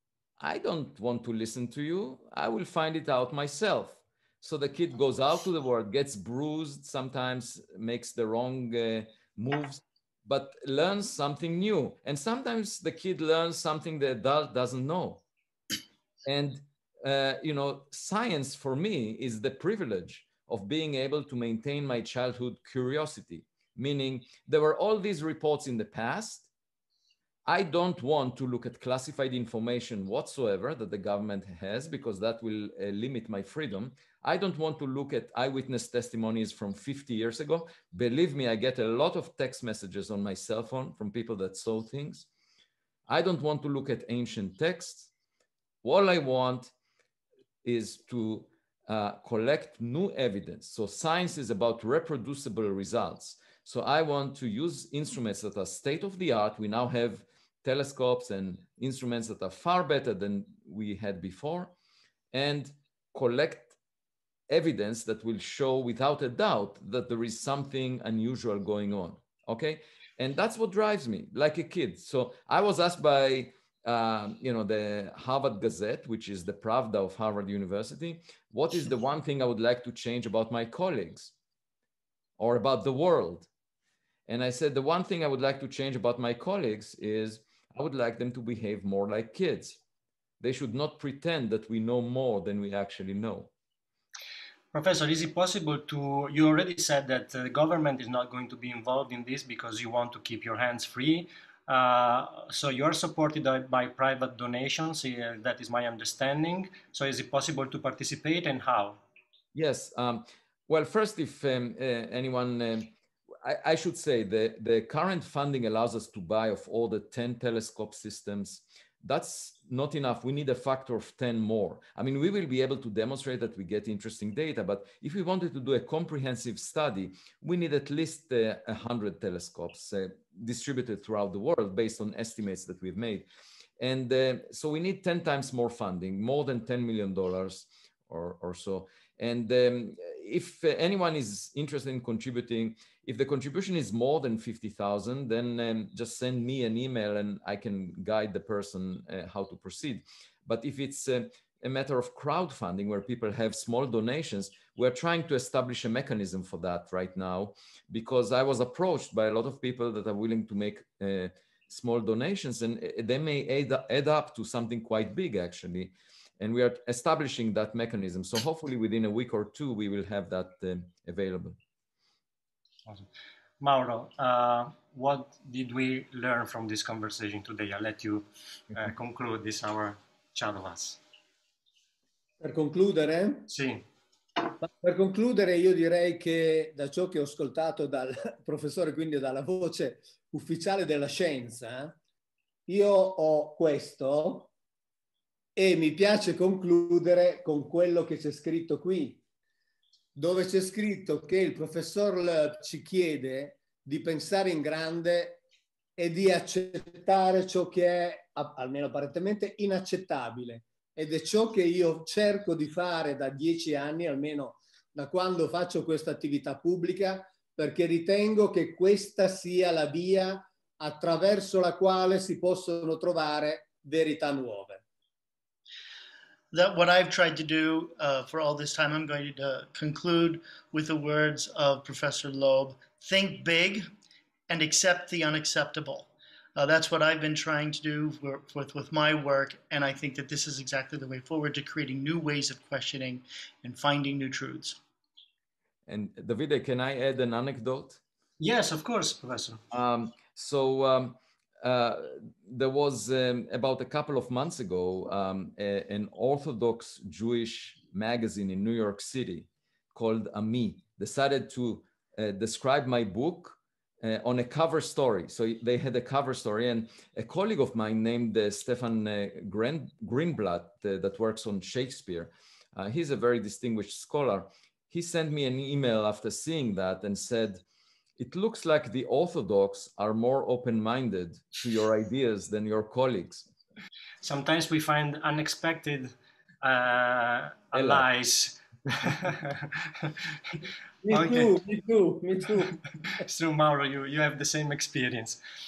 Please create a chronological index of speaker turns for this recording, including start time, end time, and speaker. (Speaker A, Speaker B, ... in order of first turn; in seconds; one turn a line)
Speaker A: 0.4-15.2
Speaker A: 16.2-26.5
Speaker A: 27.5-42.3
Speaker A: 43.1-45.1
Speaker A: 45.8-46.7
Speaker A: 47.6-61.7
Speaker A: 62.3-63.8
Speaker A: 64.5-81.3
Speaker A: 82.4-83.5
Speaker A: 84.3-89.8
Speaker A: 90.4-93.5
Speaker B: 94.7-109.0
Speaker A: 109.5-133.3
Speaker A: 133.8-171.6
Speaker B: 173.6-181.0
Speaker C: 182.4-183.5
Speaker B: 183.5-183.8
Speaker C: 184.6-192.0
Speaker C: 192.7-194.5
Speaker C: 195.6-199.2
Speaker C: 200.2-205.4
Speaker C: 206.0-224.8
Speaker D: 226.5-233.9
Speaker D: 234.5-244.8
Speaker A: 245.9-248.0
Speaker B: 248.4-249.6
Speaker A: 249.7-277.6
Speaker A: 278.2-283.5
Speaker B: 284.2-291.5
Speaker A: 287.7-288.1
Speaker C: 291.1-292.7
Speaker B: 293.1-295.4